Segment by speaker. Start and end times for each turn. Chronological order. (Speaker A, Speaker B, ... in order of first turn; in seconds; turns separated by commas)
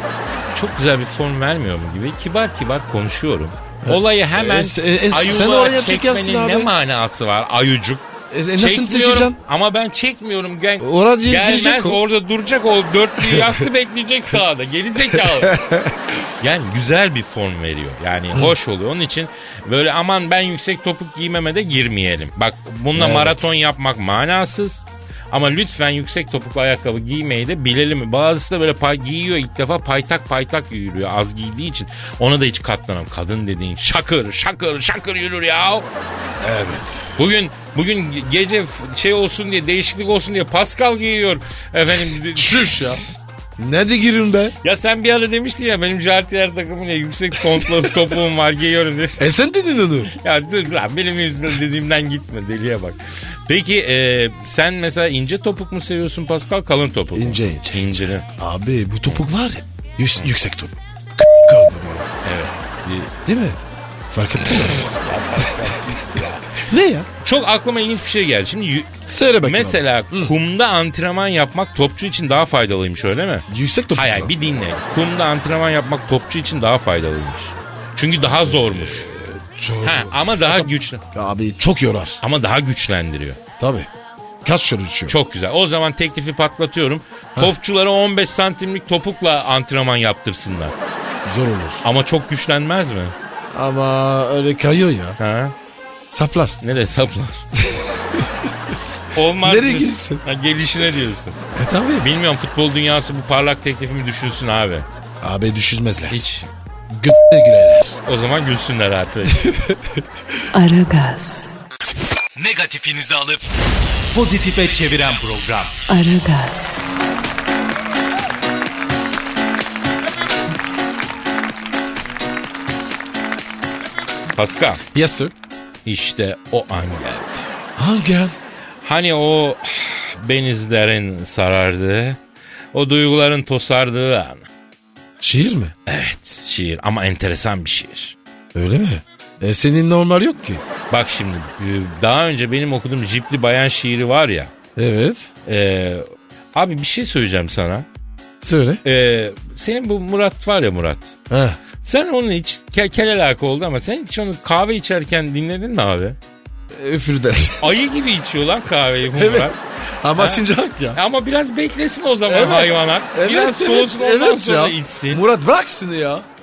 Speaker A: 0.5-15.6, Speaker B: 3.8-6.7, Speaker B: 8.3-9.4, Speaker B: 10.8-12.0, Speaker B: 13.2-13.6, Speaker B: 15.0-16.2, Speaker A: 16.4-35.9, Speaker B: 22.9-23.6, Speaker B: 36.4-37.2, Speaker A: 37.2-43.0, Speaker B: 42.3-43.0, Speaker B: 43.6-44.5, Speaker A: 44.6-49.2, Speaker B: 49.2-50.1, Speaker A: 50.1-58.3, Speaker B: 57.1-62.1, Speaker A: 62.2-63.1, Speaker B: 63.2-63.6, Speaker B: 64.1-65.5, Speaker A: 64.8-66.6, Speaker B: 66.6-67.1, Speaker A: 67.2-81.0, Speaker B: 69.1-70.3, Speaker B: 73.5-74.3, Speaker B: 78.2-82.2, Speaker A: 82.2-83.4, Speaker B: 83.6-83.9, Speaker B: 84.4-85.2, Speaker A: 85.1-90.7, Speaker B: 91.2-91.8, Speaker A: 91.8-93.1, Speaker B: 93.5-95.2, Speaker A: 95.2-95.5, Speaker B: 96.1-96.6, Speaker A: 96.6-97.5, Speaker B: 97.6-98.5, Speaker A: 99.1-101.4, Speaker B: 99.4-100.2, Speaker B: 101.5-102.1, Speaker A: 102.0-104.8, Speaker B: 105.2-106.3, Speaker A: 106.1-106.5, Speaker B: 106.9-108.0, Speaker A: 108.0-109.5, Speaker B: 109.3-110.0, Speaker C: 110.5-111.5, Speaker D: 112.3-113.4, Speaker D: 114.1-115.8, Speaker C: 115.9-116.9, Speaker A: 124.3-124.8, Speaker B: 124.9-125.3, Speaker A: 125.8-127.5, Speaker B: 127.8-128.3, Speaker A: 128.8-132.2, Speaker A: 132.7-134.5, Speaker B: 135.2-135.7, Speaker A: 135.8-138.2, Speaker B: 138.5-140.6, Speaker A: 140.9-144.5, Speaker B: 144.8-145.3, Speaker A: 145.4-147.8, Speaker B: 148.4-148.8, Speaker A: 148.8-151.1, Speaker B: 151.3-151.6, Speaker A: 151.8-156.2, Speaker B: 156.7-157.8, Speaker A: 157.6-159.6, Speaker B: 159.1-161.0, Speaker A: 160.2-165.2, Speaker B: 162.2-166.2